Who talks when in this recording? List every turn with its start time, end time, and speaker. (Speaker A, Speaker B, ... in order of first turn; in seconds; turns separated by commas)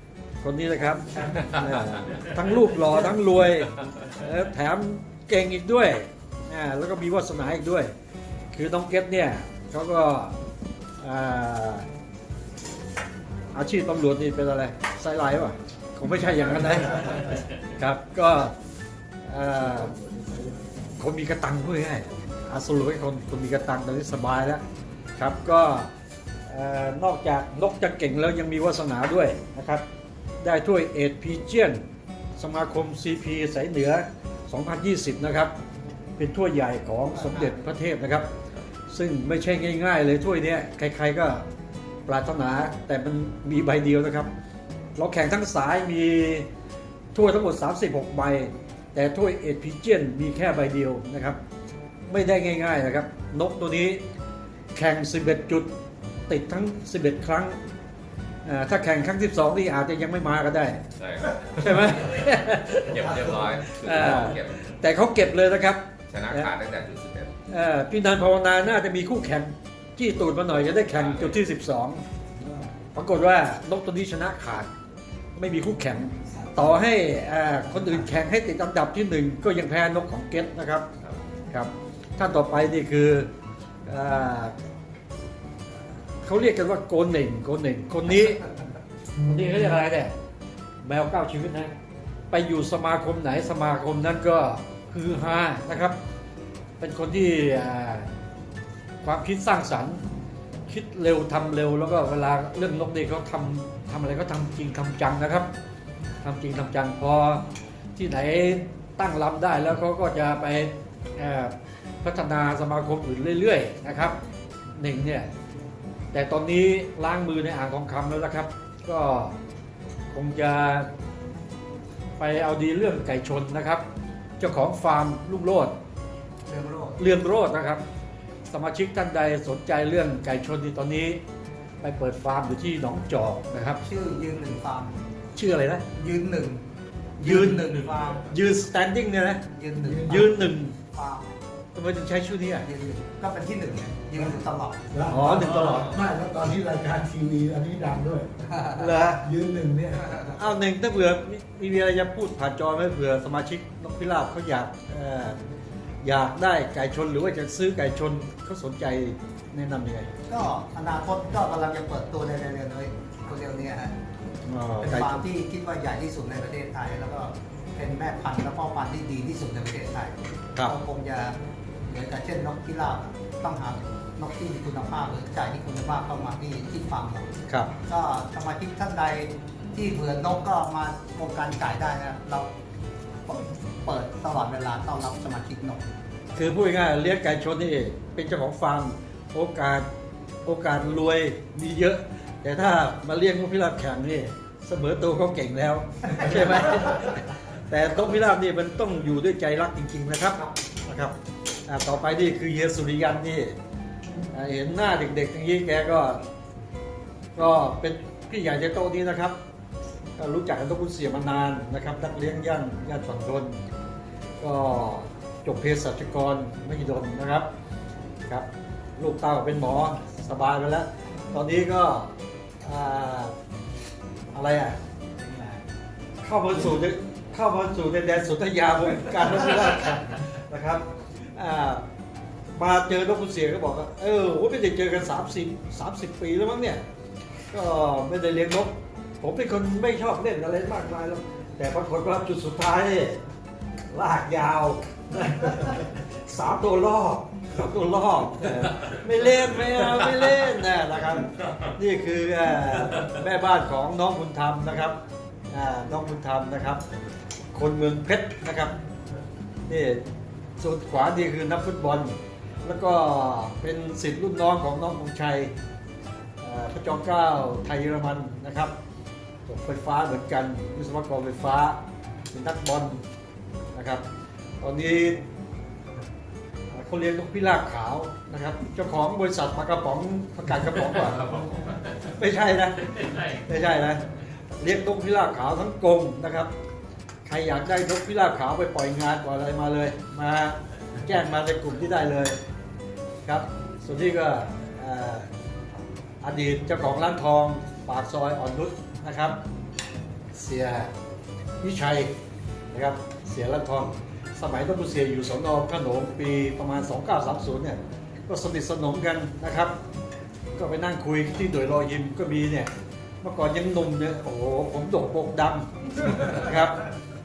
Speaker A: 0.4-7.9, Speaker A: 8.5-10.4, Speaker A: 11.0-11.9, Speaker A: 13.5-18.6, Speaker A: 19.3-20.0, Speaker B: 19.7-20.7, Speaker A: 21.0-24.6, Speaker A: 25.2-25.9, Speaker A: 26.5-29.8, Speaker A: 30.4-31.8, Speaker A: 32.4-35.5, Speaker A: 36.2-38.3, Speaker C: 37.1-37.6, Speaker A: 38.9-41.4, Speaker A: 42.1-44.3, Speaker A: 45.0-46.5, Speaker A: 47.1-51.4, Speaker A: 52.1-54.0, Speaker A: 54.7-55.7, Speaker A: 56.3-57.6, Speaker A: 58.5-60.8, Speaker D: 61.0-62.2, Speaker A: 61.6-66.5, Speaker D: 62.9-64.7, Speaker D: 66.1-67.3, Speaker A: 67.5-72.0, Speaker D: 70.5-71.4, Speaker A: 72.9-74.7, Speaker A: 75.3-80.9, Speaker A: 81.5-83.3, Speaker A: 83.9-84.5, Speaker A: 86.2-88.4, Speaker A: 89.3-90.1, Speaker A: 90.8-91.7, Speaker A: 92.3-96.0, Speaker A: 96.8-98.1, Speaker A: 99.0-100.0, Speaker A: 100.7-105.5, Speaker A: 106.2-107.5, Speaker A: 108.0-114.2, Speaker A: 114.8-115.3, Speaker A: 116.1-119.4, Speaker A: 120.1-120.9, Speaker A: 122.2-123.8, Speaker A: 124.4-125.7, Speaker C: 126.5-127.0, Speaker A: 127.0-127.8, Speaker A: 128.5-131.2, Speaker A: 131.8-133.8, Speaker C: 133.8-135.0, Speaker A: 135.3-135.8, Speaker C: 135.9-136.6, Speaker C: 137.2-138.3, Speaker A: 137.2-139.4, Speaker C: 139.5-140.3, Speaker B: 139.8-140.3, Speaker A: 140.1-140.8, Speaker C: 140.9-141.3, Speaker A: 141.8-142.7, Speaker C: 142.6-144.8, Speaker B: 144.9-148.3, Speaker A: 145.1-146.0, Speaker C: 148.5-148.9, Speaker A: 148.8-149.3, Speaker B: 149.2-150.1, Speaker C: 149.9-150.4, Speaker A: 150.3-155.4, Speaker A: 156.0-160.4, Speaker C: 160.3-163.9, Speaker A: 164.5-165.2, Speaker C: 164.8-177.3, Speaker C: 177.8-182.5, Speaker C: 183.3-185.9, Speaker A: 186.3-189.9, Speaker A: 190.4-201.1, Speaker A: 201.7-203.6, Speaker A: 204.3-206.2, Speaker A: 207.4-209.4, Speaker A: 210.2-213.6, Speaker A: 214.4-217.5, Speaker A: 218.3-222.1, Speaker A: 222.6-223.3, Speaker A: 224.3-224.8, Speaker C: 225.3-225.5, Speaker A: 226.2-231.8, Speaker A: 232.6-236.8, Speaker A: 237.5-243.2, Speaker A: 243.9-255.0, Speaker A: 255.5-256.8, Speaker A: 257.5-258.8, Speaker A: 259.7-260.0, Speaker A: 260.6-265.5, Speaker A: 266.4-268.8, Speaker A: 269.5-273.0, Speaker A: 273.7-274.0, Speaker A: 274.6-275.2, Speaker A: 276.7-284.0, Speaker A: 284.6-286.5, Speaker A: 287.3-292.4, Speaker A: 293.2-295.3, Speaker A: 296.2-299.4, Speaker A: 300.3-300.9, Speaker A: 301.6-302.1, Speaker A: 302.7-309.8, Speaker A: 310.6-312.7, Speaker A: 313.2-316.8